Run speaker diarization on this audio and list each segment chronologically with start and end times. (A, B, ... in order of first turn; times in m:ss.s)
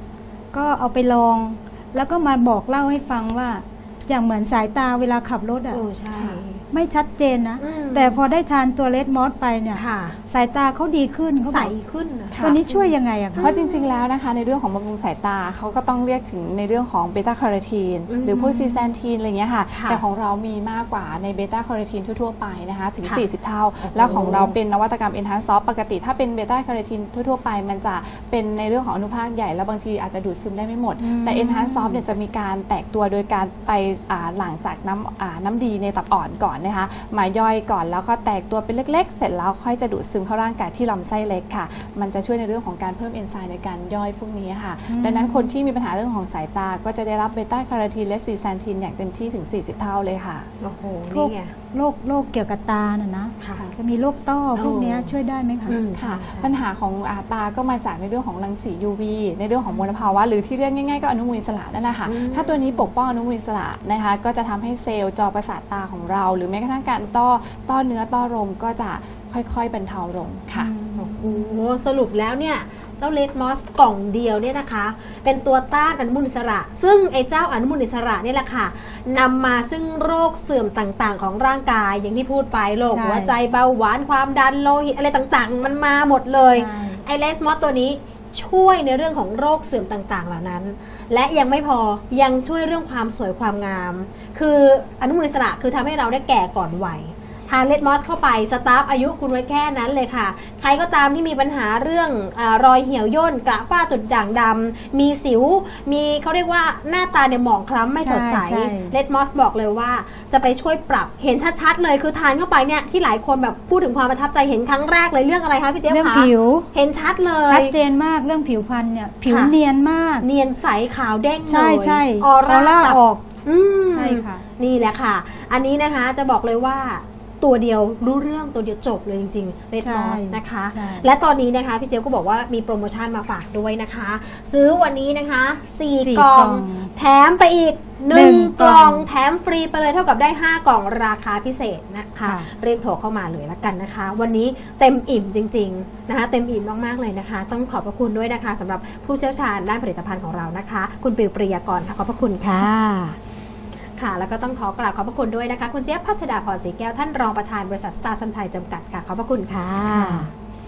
0:00.5-0:05.8 A
0:05.7-0:06.6 B
0:06.1-0:06.4 C
0:06.7-0:11.7 A
0:07.6-0:08.2 B
0:09.8-0:10.2 B
0:11.4-0:14.0 B
0:12.3-0:12.6 C
0:12.4-0:13.5 A
0:13.4-0:50.5 C
0:18.1-0:18.6 B
0:19.7-0:20.0 B
0:23.8-0:24.5 B
0:31.0-0:32.0 A
0:44.9-0:45.5 A
0:50.6-0:51.5 B
0:51.1-0:55.8 A
0:53.4-0:53.7 B
0:54.6-0:55.2 B
0:55.7-0:56.6 B
0:56.0-1:10.7 C
1:02.0-1:02.9 B
1:10.5-1:11.5 A
1:11.0-1:57.7 B
1:22.9-1:23.4 A
1:26.5-1:27.0 A
1:48.0-1:49.0 A
1:55.9-1:56.7 A
1:57.5-2:00.3 A
1:59.3-1:59.6 B
2:00.2-2:33.2 B
2:01.5-2:03.2 A
2:03.9-2:04.4 A
2:09.8-2:11.1 A
2:16.0-2:16.9 A
2:18.1-2:19.1 A
2:22.2-2:22.5 A
2:34.0-2:40.3 B
2:40.0-2:40.2 A